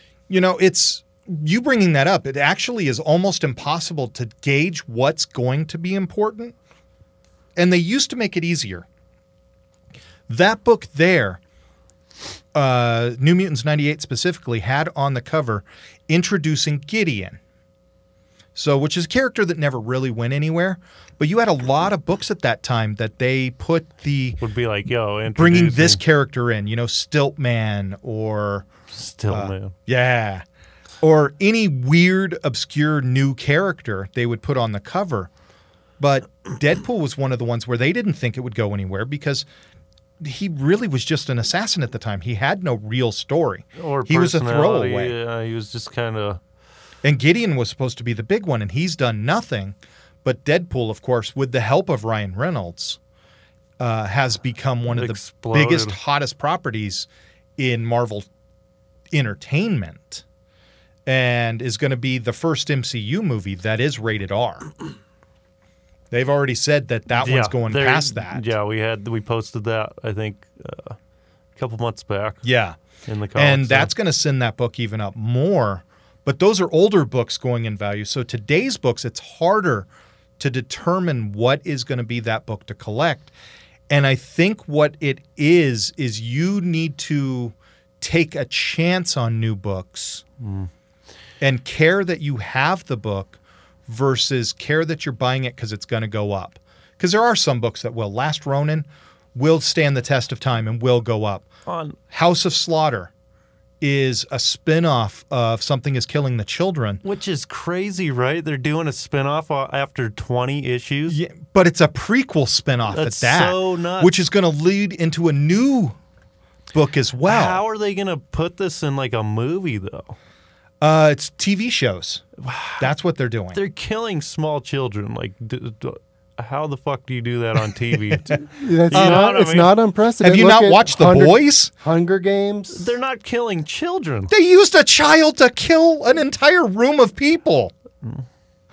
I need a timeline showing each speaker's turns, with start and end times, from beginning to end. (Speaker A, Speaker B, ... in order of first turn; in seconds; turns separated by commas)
Speaker A: 0.3-6.5, Speaker A: 7.5-8.8, Speaker A: 10.3-11.4, Speaker A: 12.5-17.4, Speaker A: 18.5-24.4, Speaker B: 24.4-26.0, Speaker A: 25.3-28.7, Speaker B: 28.9-29.7, Speaker A: 29.3-30.4, Speaker A: 31.0-35.3, Speaker A: 36.0-39.5, Speaker A: 40.2-45.1, Speaker B: 43.8-46.4, Speaker A: 47.0-53.0, Speaker A: 53.8-58.3, Speaker B: 54.9-56.0, Speaker A: 59.1-60.2, Speaker A: 61.0-64.7, Speaker A: 66.1-68.5, Speaker B: 67.2-71.0, Speaker B: 71.5-72.4, Speaker A: 72.4-72.8, Speaker B: 73.1-73.9, Speaker A: 73.3-79.9, Speaker A: 80.4-83.3, Speaker A: 83.9-90.2, Speaker B: 90.4-90.7, Speaker A: 91.4-101.5, Speaker B: 101.7-102.0, Speaker A: 102.1-103.1, Speaker A: 103.8-107.0, Speaker B: 107.0-111.2, Speaker A: 111.1-116.0, Speaker B: 112.9-114.2, Speaker A: 116.7-117.6, Speaker B: 117.2-120.2, Speaker A: 120.8-122.3, Speaker B: 122.4-122.9, Speaker A: 122.8-123.6, Speaker B: 123.5-129.7, Speaker C: 128.3-132.9, Speaker A: 128.9-129.3, Speaker A: 130.2-131.7, Speaker B: 132.7-134.3, Speaker A: 134.3-137.7